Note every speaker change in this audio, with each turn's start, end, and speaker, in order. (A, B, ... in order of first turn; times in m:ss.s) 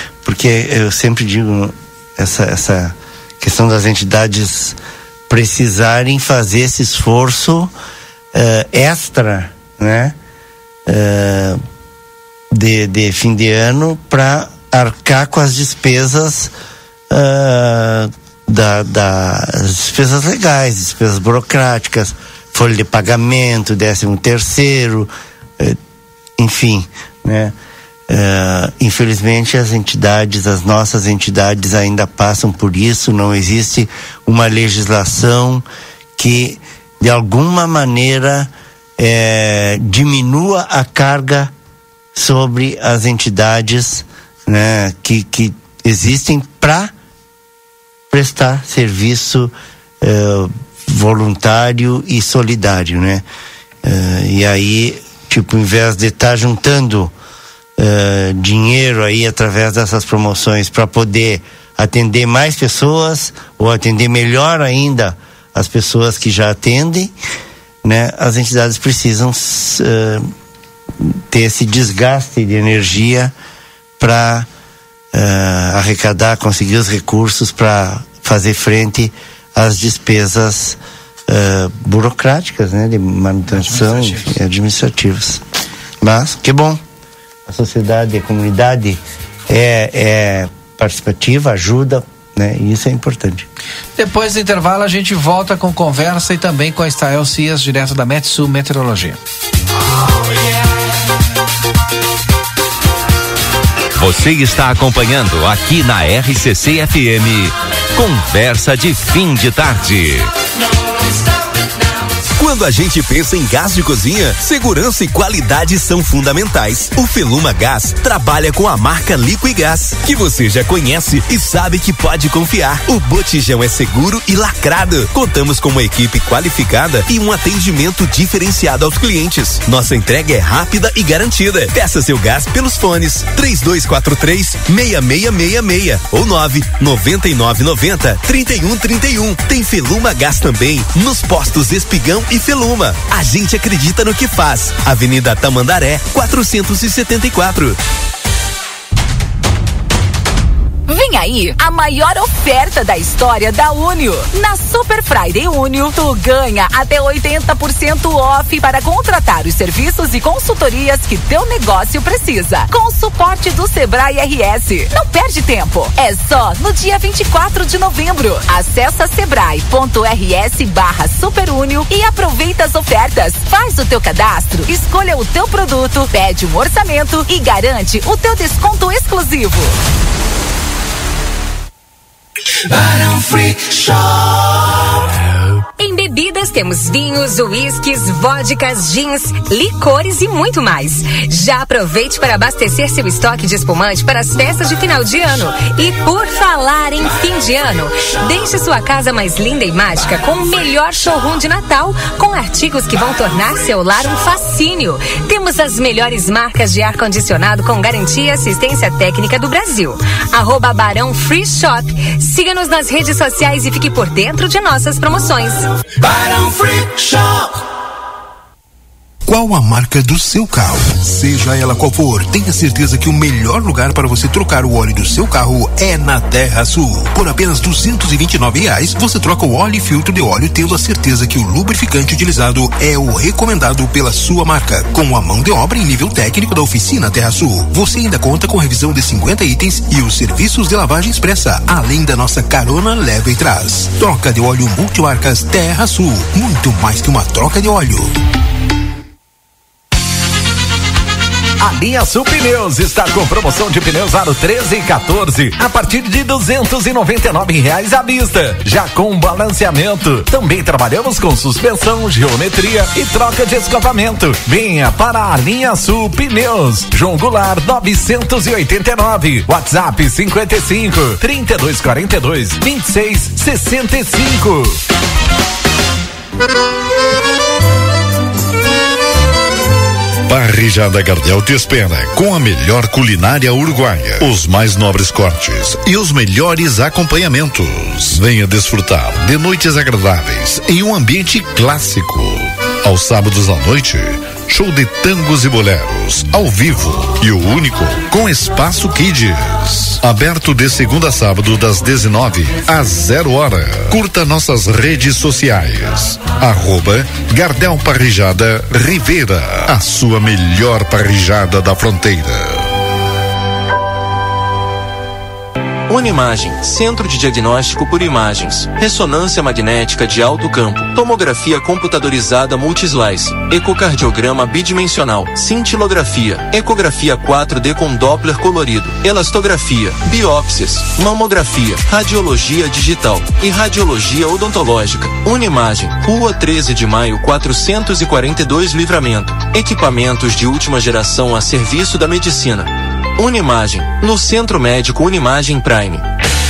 0:00.2-0:04.8 A
0:05.3-0:07.7 A
0:08.3-0:10.2 A
0:10.9-0:11.6 A
0:12.5-0:16.5 A
0:17.1-0:25.8 A
0:26.4-0:27.6 A
0:28.1-0:35.6 A
0:36.2-0:41.5 A
0:42.1-0:46.9 A
0:48.1-0:53.2 A
0:53.8-0:57.1 A
0:57.8-1:07.1 A
1:07.8-1:10.3 A
1:11.0-1:13.3 A
1:14.0-1:14.5 A
1:15.1-1:25.4 A
1:23.5-1:24.3 B
1:26.0-1:26.8 A
1:27.5-1:33.5 A
1:34.0-1:39.2 B
1:40.0-1:41.0 C
1:44.0-1:50.3 D
1:50.5-1:52.2 C
1:52.4-2:27.8 E
2:30.9-2:59.8 F
3:02.7-3:04.8 C
3:05.8-3:35.7 G
3:36.0-3:37.6 C
3:39.3-4:08.2 H
4:11.6-4:34.8 I
4:40.3-5:12.6 J
5:15.9-5:46.0 K